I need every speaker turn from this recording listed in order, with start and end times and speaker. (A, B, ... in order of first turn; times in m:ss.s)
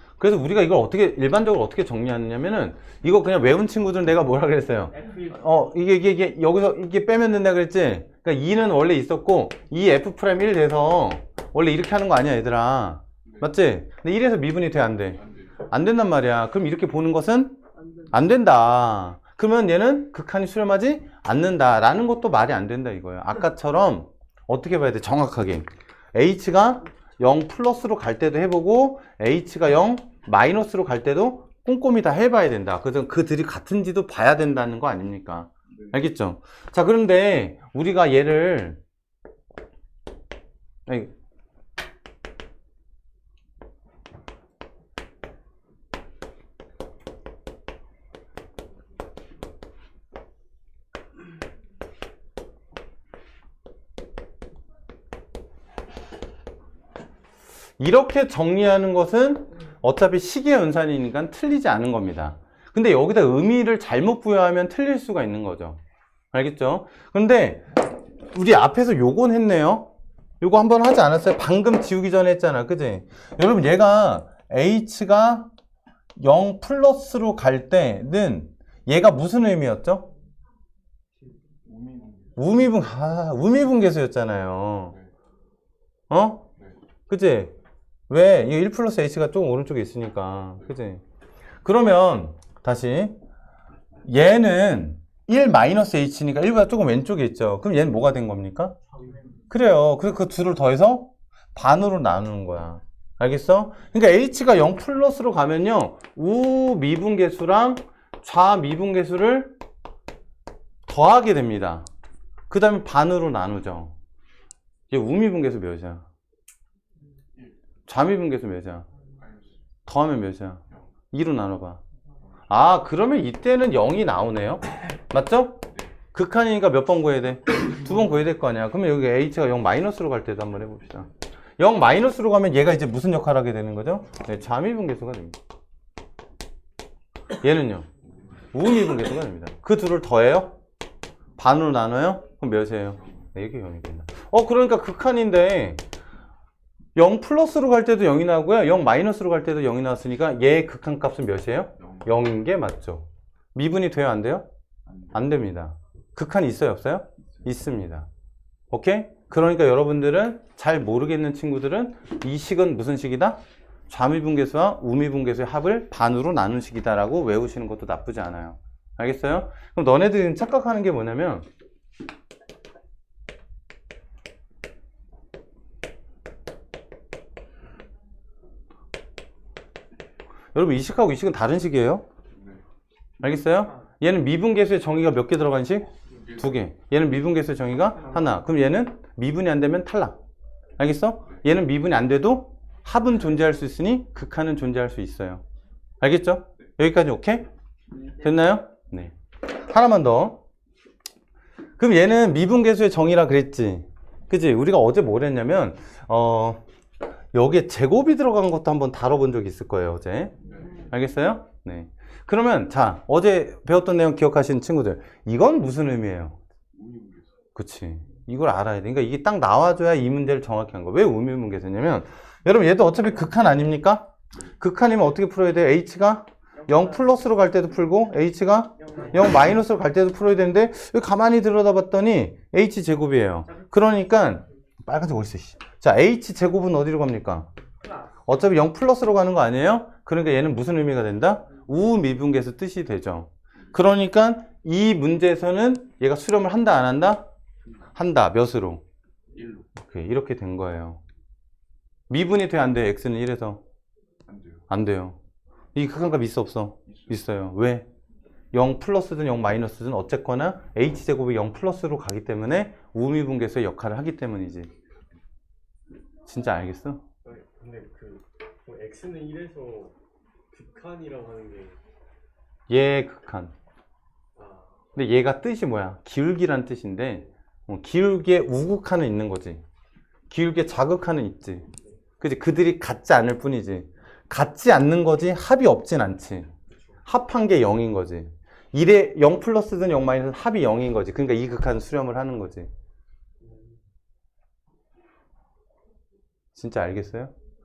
0:00.2-0:17.6 A
0:15.2-0:15.5 B
0:18.1-0:38.8 A
0:57.8-1:05.8 A
1:06.3-1:07.7 A
1:08.3-1:15.5 A
1:16.2-1:20.1 A
1:21.6-1:22.4 B
1:22.4-1:24.9 A
1:26.1-1:26.4 A
1:27.1-1:27.5 A
1:28.1-1:31.0 A
1:31.6-1:33.2 A
1:34.0-1:38.7 A
1:39.0-1:39.2 C
1:39.5-1:49.6 A
1:50.9-1:51.8 A
1:52.5-1:53.9 A
1:54.9-1:56.0 A
1:57.9-1:58.9 A
1:59.2-1:59.5 B
1:59.8-2:01.8 A
2:02.5-2:15.4 A
2:17.4-2:17.8 A
2:18.5-2:20.6 A
2:21.4-2:25.8 A
2:27.0-2:34.4 A
2:31.8-2:32.1 B
2:34.8-2:35.3 B
2:35.1-2:38.1 A
2:38.7-2:51.4 A
3:00.5-3:02.0 A
3:02.3-3:02.6 B
3:03.2-3:10.2 A
3:06.2-3:06.5 B
3:10.8-3:15.4 A
3:16.0-3:17.4 A
3:18.1-3:20.4 A
3:21.8-3:26.6 A
3:27.3-3:36.4 A
3:30.4-3:30.8 B
3:36.7-3:37.3 B
3:37.6-3:57.5 A
3:46.7-3:47.0 C
3:48.8-3:49.1 C
3:58.2-4:07.2 A
4:08.0-4:08.8 A
4:09.3-4:09.7 B
4:09.8-4:11.0 A
4:12.1-4:13.6 A
4:14.3-4:14.6 B
4:14.7-4:15.2 A
4:15.7-4:17.9 A
4:18.5-4:24.7 A
4:26.2-4:27.0 A
4:27.2-4:29.9 C
4:30.5-4:31.8 C
4:32.7-4:33.5 A
4:34.4-4:34.7 C
4:35.0-4:39.6 A
4:40.3-4:41.7 A
4:42.2-4:46.5 A
4:47.0-4:52.7 A
4:53.4-4:53.7 C
4:56.5-4:57.3 A